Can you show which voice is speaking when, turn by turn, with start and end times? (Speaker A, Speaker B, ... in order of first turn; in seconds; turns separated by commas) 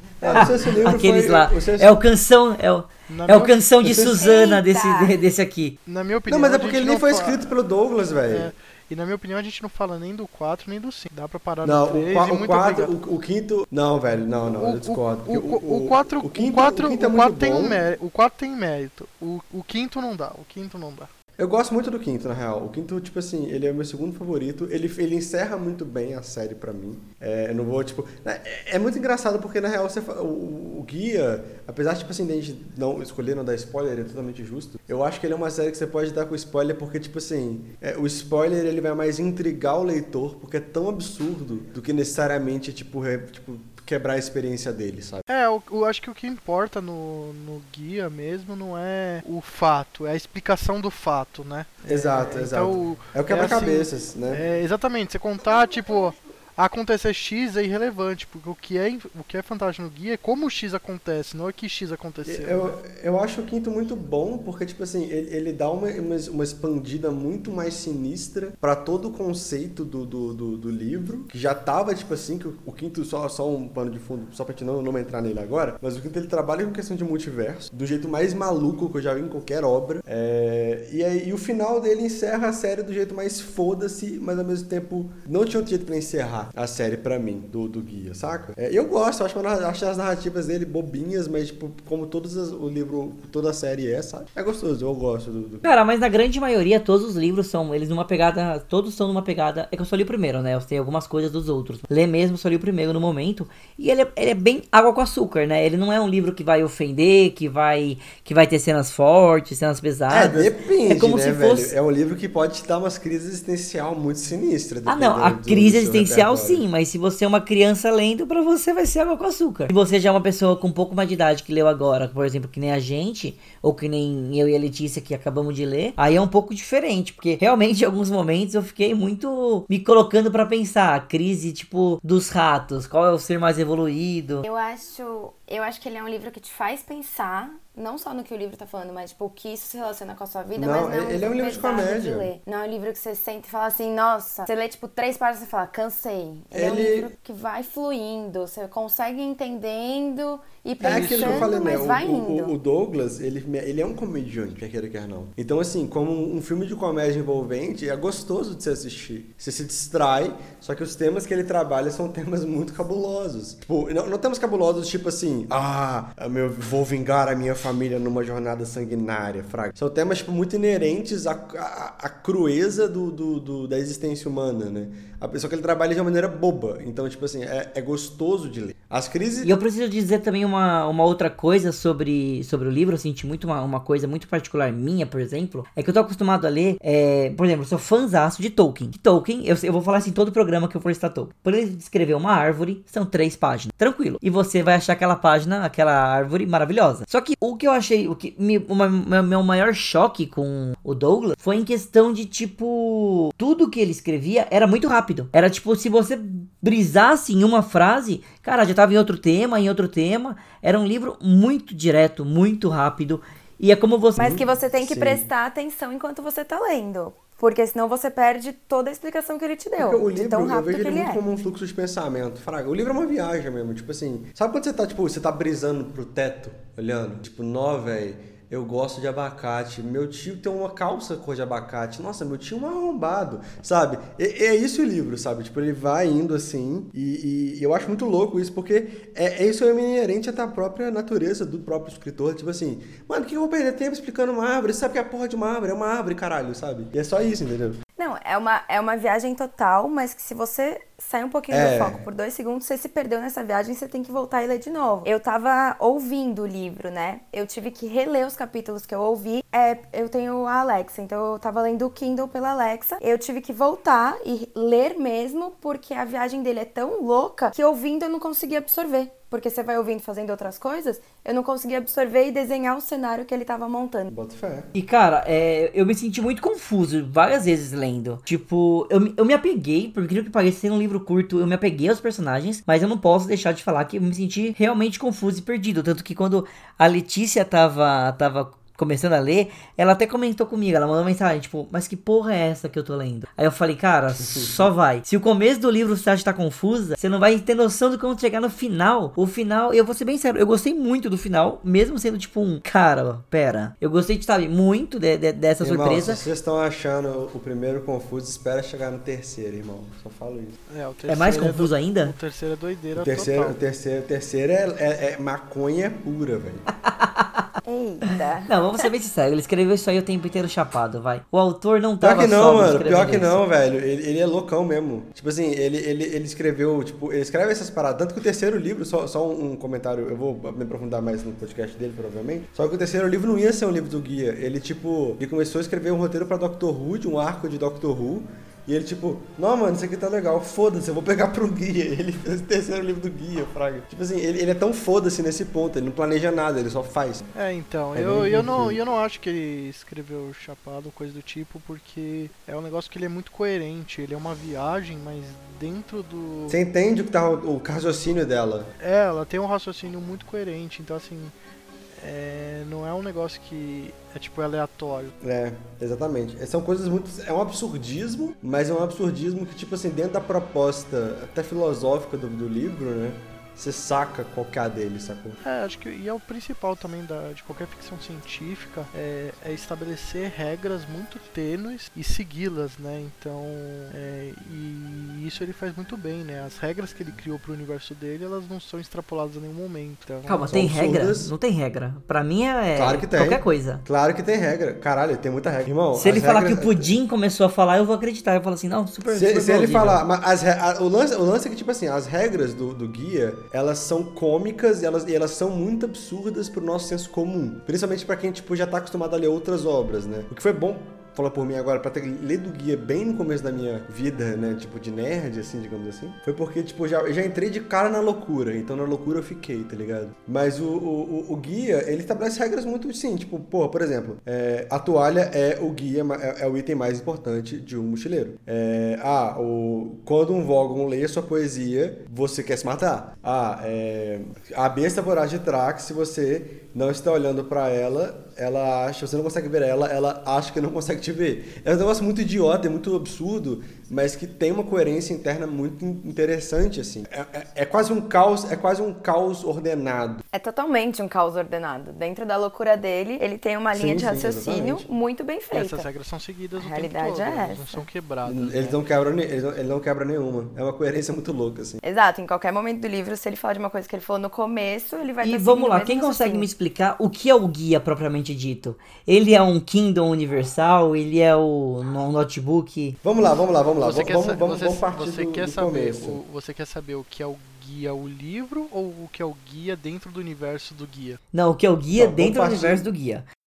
Speaker A: 0.2-2.0, Speaker B: 0.3-5.8, Speaker C: 3.1-3.6, Speaker A: 3.8-4.2, Speaker D: 4.0-5.2, Speaker C: 5.9-7.5, Speaker A: 6.3-8.5, Speaker C: 8.3-12.9, Speaker A: 11.6-17.8, Speaker C: 14.5-21.1, Speaker A: 21.4-45.2, Speaker C: 45.3-62.8, Speaker A: 51.9-54.4, Speaker A: 62.2-95.7, Speaker B: 95.6-111.7, Speaker A: 110.1-116.6, Speaker B: 114.9-134.4, Speaker D: 134.4-152.5, Speaker A: 140.6-142.3, Speaker A: 146.5-147.1, Speaker C: 150.8-151.5, Speaker A: 150.8-179.6, Speaker B: 179.4-214.4, Speaker A: 214.2-215.3, Speaker D: 214.2-221.2, Speaker A: 219.8-247.8, Speaker D: 248.0-274.1, Speaker A: 251.5-252.0, Speaker A: 274.1-274.7, Speaker B: 274.7-306.2, Speaker A: 294.2-294.7, Speaker A: 305.6-310.6, Speaker C: 310.7-313.6, Speaker B: 311.1-312.1, Speaker A: 313.0-316.6, Speaker B: 316.8-317.4, Speaker D: 317.6-318.9, Speaker B: 318.4-323.4, Speaker A: 322.0-347.3, Speaker C: 347.3-356.6, Speaker A: 347.9-348.8, Speaker A: 356.5-358.7, Speaker C: 358.8-361.3, Speaker C: 362.0-365.1, Speaker A: 365.2-375.4, Speaker C: 375.4-390.6, Speaker B: 390.3-393.8, Speaker A: 390.5-391.3, Speaker A: 392.8-396.9, Speaker B: 395.9-400.0, Speaker A: 399.1-450.2, Speaker D: 450.3-455.9, Speaker A: 453.7-454.9, Speaker C: 455.5-458.8, Speaker D: 456.6-457.9, Speaker A: 458.2-461.8, Speaker D: 461.8-466.5, Speaker B: 465.2-473.0, Speaker A: 473.0-476.2, Speaker C: 473.2-481.2, Speaker B: 481.3-483.2, Speaker A: 481.9-482.9